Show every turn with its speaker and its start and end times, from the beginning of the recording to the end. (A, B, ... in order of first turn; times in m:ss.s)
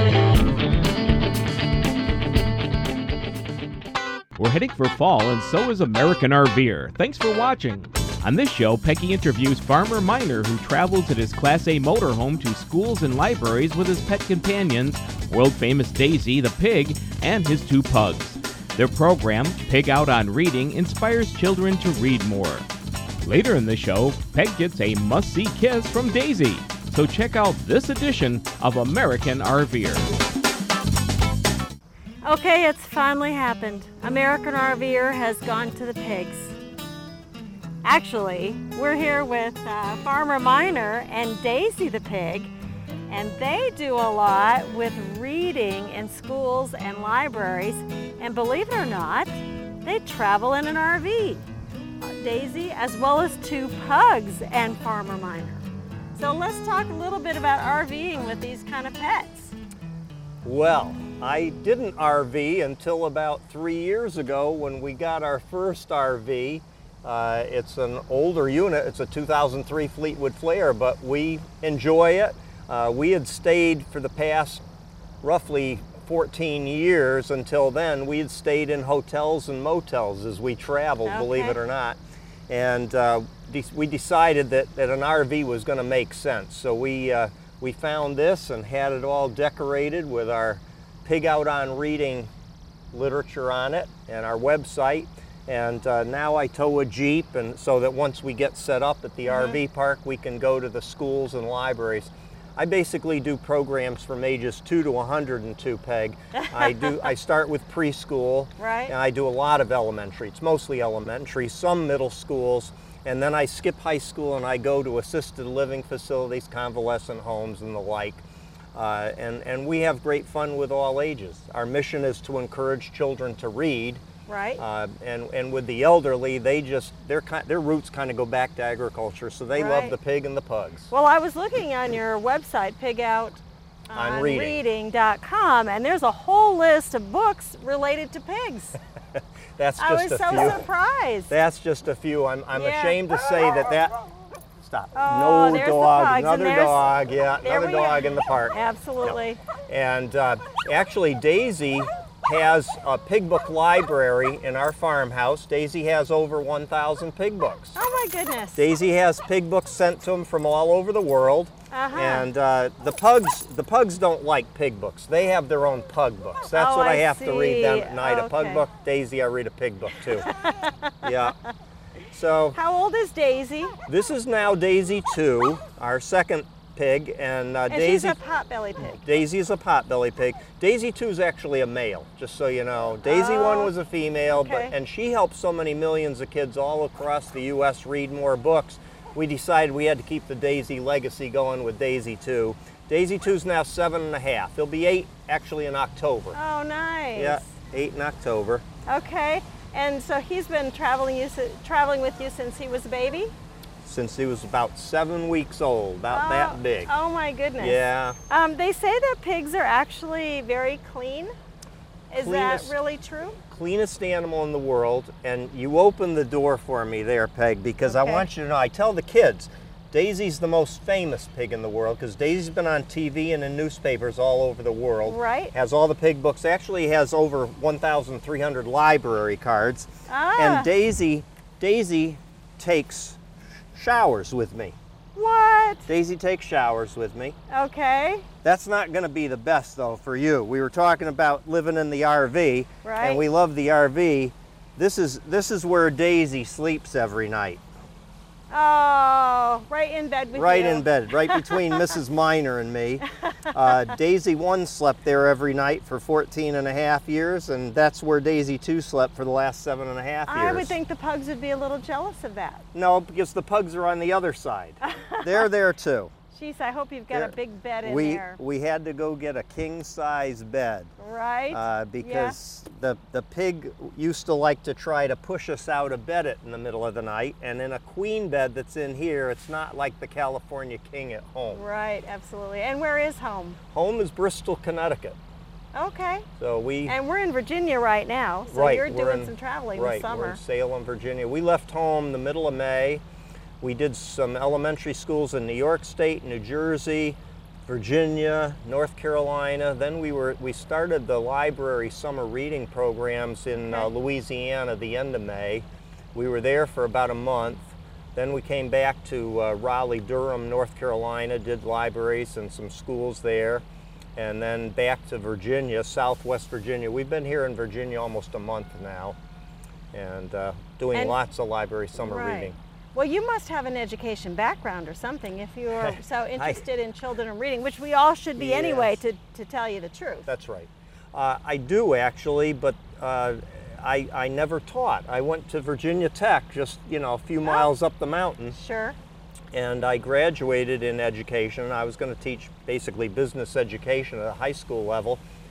0:04.4-0:22.7 A
0:23.2-0:30.1 A
0:32.2-0:36.6 B
0:37.8-0:42.5 B
0:43.1-0:51.5 B
0:52.0-0:59.5 B
1:00.4-1:14.6 C
1:15.2-1:22.0 C
1:21.0-1:21.6 B
1:22.5-1:32.3 C
1:32.9-2:04.0 C
1:39.3-1:39.6 B
1:46.5-1:47.0 B
1:48.6-1:48.9 B
2:04.2-2:04.6 B
2:04.6-2:10.9 C
2:09.5-2:10.0 B
2:10.9-2:18.8 B
2:13.9-2:14.6 C
2:19.6-2:20.6 C
2:19.8-2:21.3 B
2:21.3-2:37.8 C
2:22.5-2:23.8 B
2:24.9-2:29.4 B
2:37.7-2:38.6 B
2:38.6-2:50.3 C
2:41.7-2:42.3 B
2:46.5-2:48.6 B
2:50.3-2:50.9 B
2:51.0-2:51.4 C
2:52.1-2:52.6 C
2:52.5-2:53.8 B
2:53.9-2:58.2 C
2:57.7-2:59.0 B
2:58.8-3:16.4 C
3:03.0-3:03.7 B
3:04.3-3:04.7 B
3:16.3-3:17.4 B
3:17.1-3:18.6 C
3:18.8-3:23.3 B
3:23.8-3:26.9 C
3:26.1-3:31.3 B
3:27.6-3:28.2 C
3:32.1-3:33.4 B
3:32.1-3:32.7 C
3:33.5-3:53.2 C
3:37.8-3:38.2 B
3:45.0-3:45.5 B
3:50.1-3:50.7 B
3:53.7-3:54.8 C
3:55.1-3:55.9 B
3:55.9-3:57.4 C
3:57.5-3:58.3 B
3:58.4-4:07.6 C
4:02.8-4:03.2 B
4:08.5-4:11.8 B
4:10.3-4:20.8 C
4:20.3-4:22.6 B
4:22.7-4:26.1 C
4:24.8-4:25.5 B
4:26.3-4:28.4 B
4:27.1-4:30.9 C
4:31.0-4:32.4 B
4:31.5-4:41.6 C
4:41.5-4:43.6 B
4:43.7-4:45.2 C
4:45.7-4:46.2 B
4:46.4-4:47.0 C
4:46.8-4:50.4 B
4:48.5-4:53.0 C
4:53.6-5:13.6 C
5:14.2-5:19.2 C
5:19.9-5:22.6 C
5:22.0-5:30.3 B
5:25.7-5:26.6 C
5:28.4-5:29.0 C
5:30.2-5:38.6 C
5:37.4-5:37.7 B
5:38.5-5:39.0 B
5:39.5-5:45.2 C